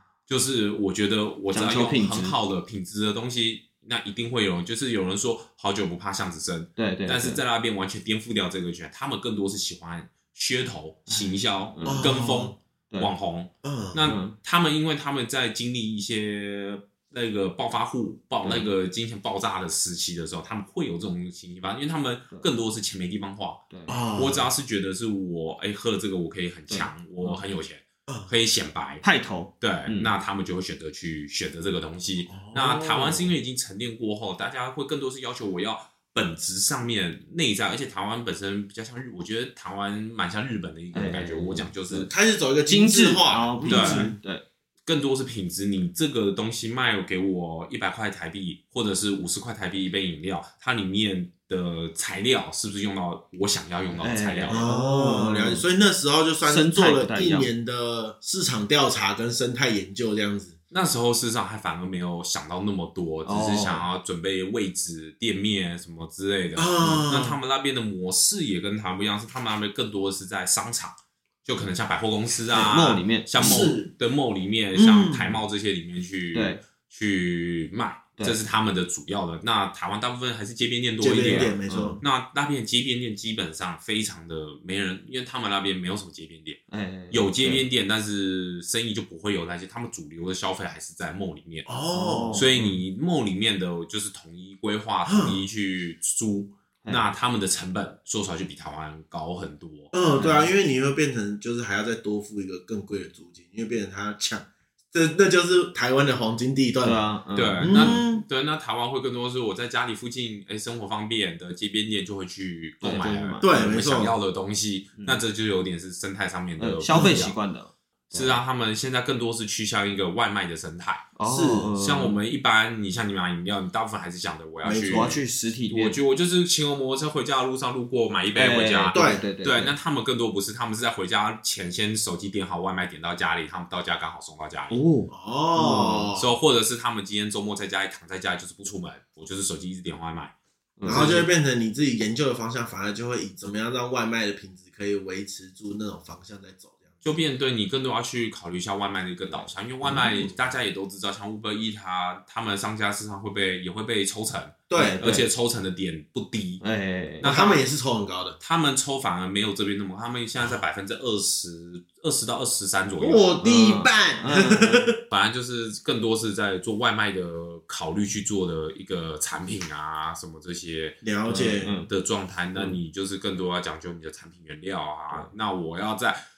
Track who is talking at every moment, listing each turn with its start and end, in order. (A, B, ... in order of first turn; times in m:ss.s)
0:00.3-0:29.0 A
0:01.5-0:02.4 B
0:06.8-0:07.4 B
0:11.1-0:12.2 B
0:11.8-0:12.5 C
0:13.6-0:14.0 C
0:14.0-0:14.3 B
0:18.4-0:18.7 B
0:23.7-0:24.0 B
0:23.9-0:24.5 C
0:26.7-0:27.4 B
0:29.0-0:30.1 B
0:29.6-0:42.1 A
0:32.3-0:33.3 C
0:40.9-0:42.1 B
0:42.1-0:44.1 C
0:42.7-0:44.4 B
0:43.7-0:44.1 A
0:44.8-0:54.6 A
0:54.0-0:55.6 B
0:54.5-1:00.6 C
0:56.4-0:57.5 B
1:00.7-1:31.7 A
1:03.2-1:03.8 B
1:06.6-1:07.4 C
1:12.5-1:13.7 B
1:13.4-1:13.9 C
1:14.7-1:15.4 C
1:16.3-1:16.6 B
1:21.0-1:22.0 C
1:21.2-1:22.0 B
1:26.7-1:27.6 B
1:31.7-1:32.6 C
1:31.9-1:32.8 B
1:32.3-1:39.9 A
1:35.0-1:35.4 C
1:39.9-1:47.0 C
1:40.1-1:40.5 B
1:46.8-1:48.0 B
1:47.4-1:57.4 A
1:47.6-1:48.2 C
1:52.8-1:53.5 B
1:53.4-1:54.2 C
1:56.6-1:58.4 B
1:56.9-1:57.2 C
1:58.1-2:01.1 A
2:01.2-2:02.2 B
2:01.2-2:01.7 C
2:01.8-2:14.8 A
2:04.6-2:05.2 C
2:04.8-2:06.0 B
2:08.3-2:09.7 B
2:08.9-2:09.2 C
2:14.7-2:16.1 B
2:15.1-2:16.3 C
2:16.2-2:21.3 A
2:20.8-2:21.2 B
2:20.8-2:26.9 C
2:27.0-2:36.6 A
2:29.3-2:30.3 B
2:34.7-2:35.0 C
2:34.7-2:35.2 B
2:36.6-2:37.3 B
2:37.2-2:37.6 A
2:37.2-2:38.4 C
2:38.4-2:43.3 A
2:43.0-2:45.0 C
2:43.4-2:44.9 B
2:45.1-2:51.0 A
2:51.0-2:51.7 C
2:51.2-2:51.9 B
2:51.6-2:56.2 A